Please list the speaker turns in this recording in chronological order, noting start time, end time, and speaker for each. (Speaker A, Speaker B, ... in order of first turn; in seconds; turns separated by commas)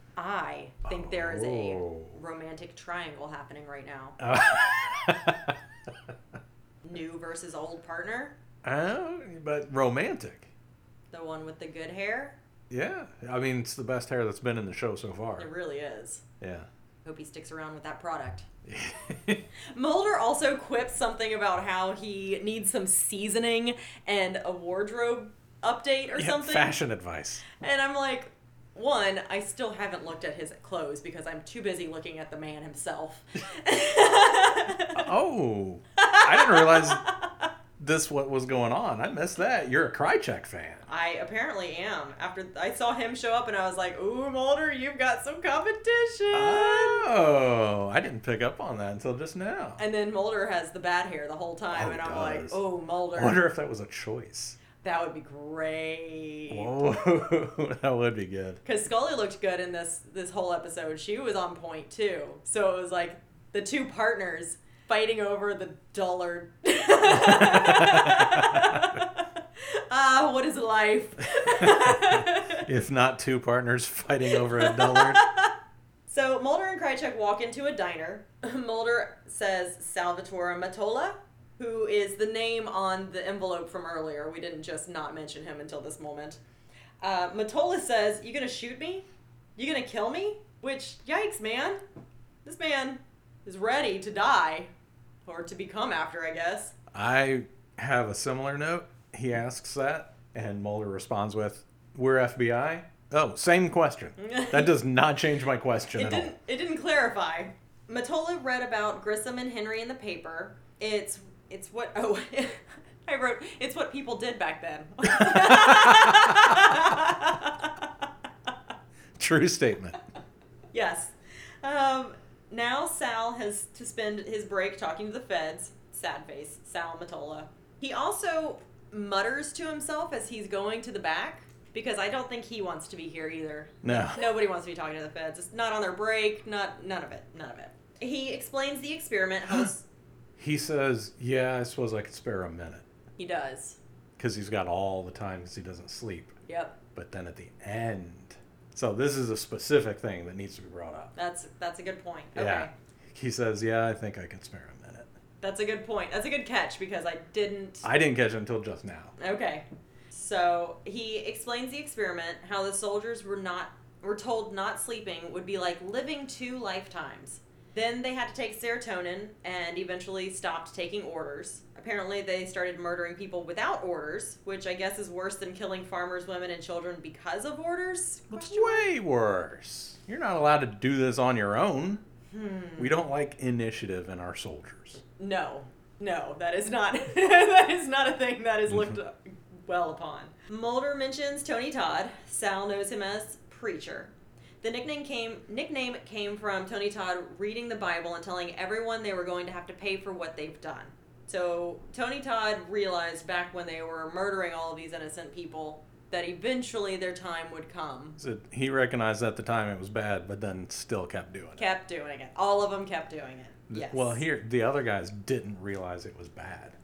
Speaker A: 0.2-4.2, Speaker B: 0.9-2.2, Speaker B: 4.2-5.6, Speaker A: 6.8-8.3, Speaker B: 8.6-10.5, Speaker A: 11.1-12.4, Speaker B: 12.7-15.5, Speaker A: 15.4-16.2, Speaker B: 16.4-16.7, Speaker A: 17.1-18.5, Speaker B: 18.7-19.4, Speaker A: 19.6-26.7, Speaker B: 26.1-27.4, Speaker A: 27.5-35.1, Speaker B: 35.0-37.0, Speaker A: 36.0-37.3, Speaker B: 37.8-40.9, Speaker A: 40.9-47.1, Speaker B: 46.3-49.8, Speaker A: 49.8-53.4, Speaker B: 51.7-52.6, Speaker B: 53.1-54.6, Speaker A: 54.8-56.7, Speaker B: 56.5-58.6, Speaker A: 58.6-72.7, Speaker B: 67.0-68.9, Speaker B: 71.6-75.2, Speaker A: 74.3-75.5, Speaker A: 76.1-86.4, Speaker A: 87.0-91.8, Speaker A: 92.5-94.7, Speaker A: 95.3-96.7, Speaker B: 96.9-106.3, Speaker A: 104.2-104.7, Speaker A: 106.0-117.9, Speaker B: 115.1-116.8, Speaker B: 119.2-120.0, Speaker A: 120.7-139.9, Speaker B: 133.8-134.3, Speaker B: 140.4-142.8, Speaker A: 143.2-143.8, Speaker B: 144.2-146.4, Speaker A: 146.5-146.8, Speaker B: 146.9-151.1, Speaker A: 151.2-152.7, Speaker B: 152.3-155.1, Speaker A: 155.4-157.9, Speaker B: 157.8-159.1, Speaker A: 159.2-178.9, Speaker B: 178.3-182.0, Speaker A: 182.3-183.0, Speaker B: 182.8-185.0, Speaker A: 185.2-208.2, Speaker B: 188.7-188.9, Speaker B: 208.2-211.7, Speaker A: 211.6-214.2, Speaker B: 213.7-216.8